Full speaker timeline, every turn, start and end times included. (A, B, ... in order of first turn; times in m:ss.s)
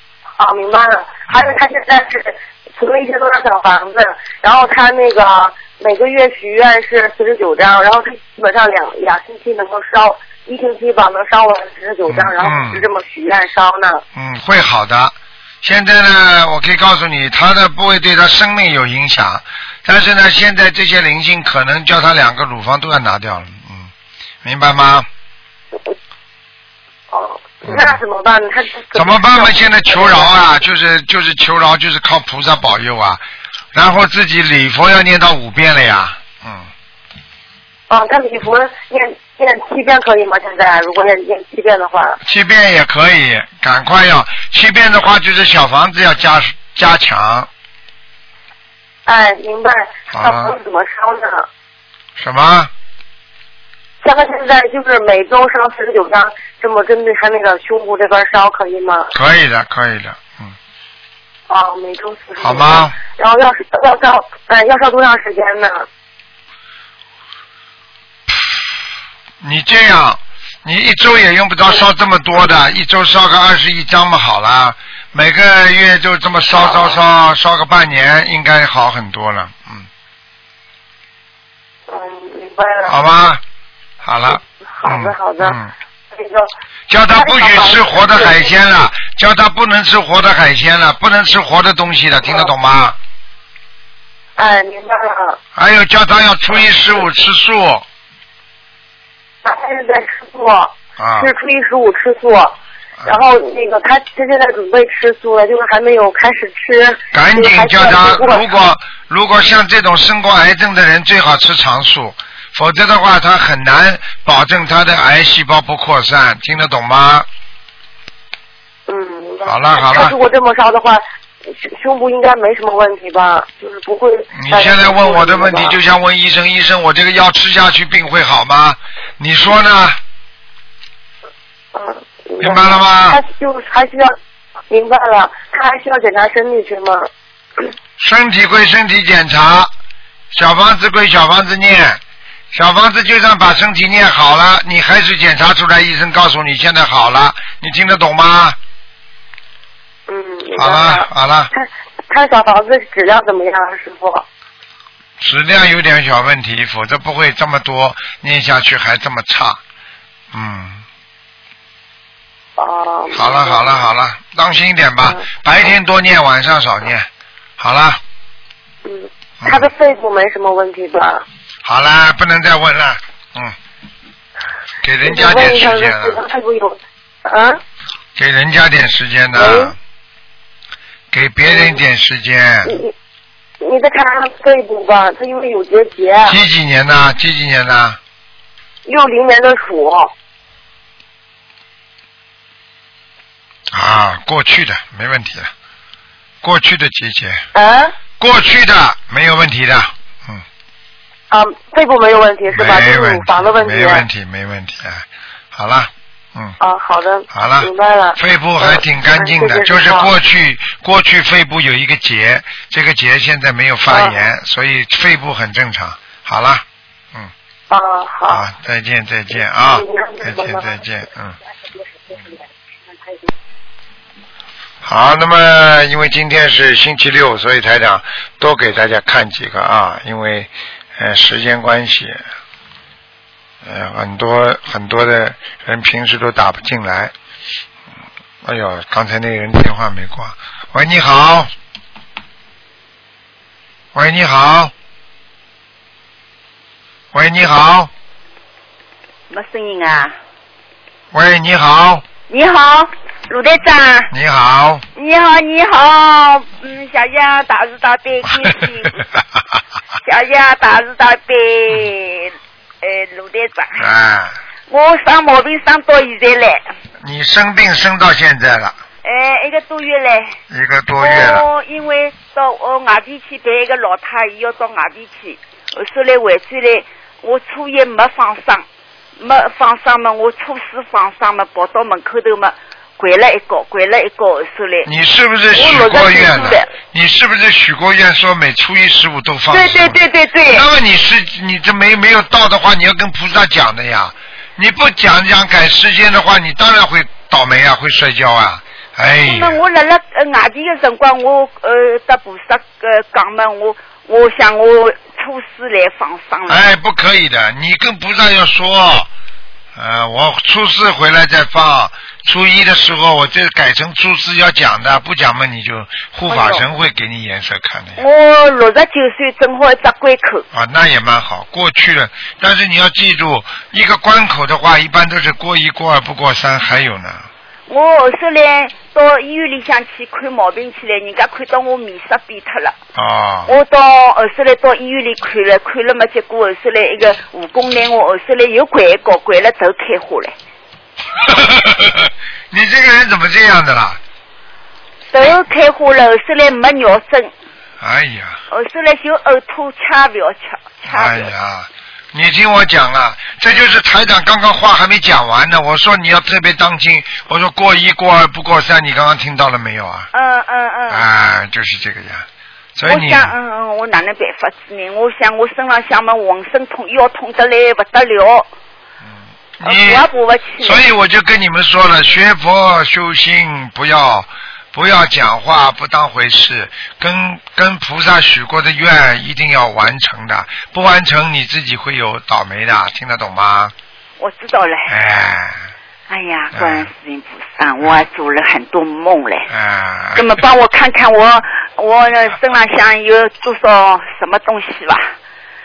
0:00.4-0:14.0 A
0:12.1-0:12.8 B
0:14.1-0:23.9 B
0:24.4-0:25.1 B
0:27.1-0:30.3 A
0:27.6-0:28.0 B
0:28.9-0:36.7 B
0:37.9-0:42.2 A
0:42.2-0:47.5 B
0:49.0-0:51.5 A
0:50.1-0:50.5 B
0:52.2-0:52.7 B
0:54.0-0:59.1 A
0:59.1-1:00.6 B
1:01.5-1:05.9 A
1:02.4-1:03.0 B
1:08.3-1:08.6 B
1:09.4-1:19.9 B
1:21.9-1:23.0 A
1:22.8-1:23.4 B
1:24.0-1:25.7 B
1:24.3-1:25.6 A
1:26.1-1:26.5 A
1:26.9-1:33.0 B
1:27.1-1:28.4 A
1:34.4-1:35.4 A
1:35.5-1:37.8 B
1:36.5-1:36.9 A
1:39.4-1:48.4 A
1:41.0-1:41.3 B
1:47.1-1:57.3 B
1:58.9-2:05.8 A
1:59.4-2:00.1 B
2:04.3-2:10.0 B
2:11.7-2:14.1 A
2:12.4-2:13.2 B
2:14.7-2:17.1 A
2:18.0-2:19.7 B
2:20.3-2:22.0 B
2:22.5-2:28.6 B
2:30.1-2:34.2 A
2:30.6-2:31.5 B
2:35.2-2:39.6 B
2:40.3-2:40.8 B
2:42.6-2:43.8 A
2:43.1-2:48.0 B
2:48.8-2:51.2 A
2:49.4-2:49.7 B
2:51.6-2:53.6 B
2:54.8-2:56.2 B
2:55.0-2:57.6 A
2:58.2-2:59.8 B
2:59.3-2:59.7 A
3:01.1-3:02.8 B
3:01.4-3:01.8 A
3:02.6-3:02.9 A
3:03.6-3:06.4 A
3:06.2-3:08.0 B
3:08.8-3:10.1 A
3:13.7-3:15.5 B
3:16.4-3:17.4 B
3:17.5-3:17.9 A
3:18.2-3:20.4 B
3:21.3-3:24.0 A
3:22.5-3:26.6 B
3:26.6-3:30.1 A
3:27.3-3:37.3 B
3:33.9-3:34.2 A
3:37.7-3:38.4 A
3:38.3-3:41.4 B
3:39.6-3:40.8 A
3:42.1-3:42.4 A
3:44.8-3:52.2 B
3:53.6-3:57.1 B
3:58.4-4:01.5 B
4:03.9-4:04.7 B
4:07.1-4:07.9 B
4:09.3-4:10.2 C
4:11.1-4:12.0 B
4:12.3-4:14.1 C
4:14.1-4:14.8 B
4:14.9-4:19.1 C
4:18.3-4:19.2 B
4:20.0-4:23.9 C
4:23.8-4:24.4 B
4:24.7-4:26.6 C
4:27.0-4:28.8 B
4:29.0-4:30.4 C
4:30.5-4:31.4 B
4:31.0-4:38.6 C
4:39.2-4:44.9 C
4:44.8-4:50.0 B
4:45.5-4:46.7 C
4:49.5-4:50.6 C
4:50.5-4:59.6 B
4:59.2-5:06.7 C
5:06.5-5:09.1 B
5:09.8-5:18.0 B
5:16.3-5:16.7 C
5:18.0-5:20.4 C
5:20.5-5:27.3 B
5:27.7-5:32.8 C
5:32.9-5:33.5 B
5:33.4-5:40.3 C
5:41.2-5:44.0 B
5:45.1-5:47.3 C
5:47.8-5:48.4 B
5:48.5-5:51.3 C
5:50.8-6:00.1 B
6:00.1-6:01.0 C
6:00.9-6:03.3 B
6:02.9-6:08.5 C
6:09.0-6:10.0 B
6:09.6-6:10.8 C
6:10.6-6:23.7 B
6:24.2-6:25.0 C
6:24.9-6:25.7 B
6:26.1-6:29.5 C
6:26.5-6:26.9 B
6:29.5-6:30.4 B
6:30.1-6:35.1 C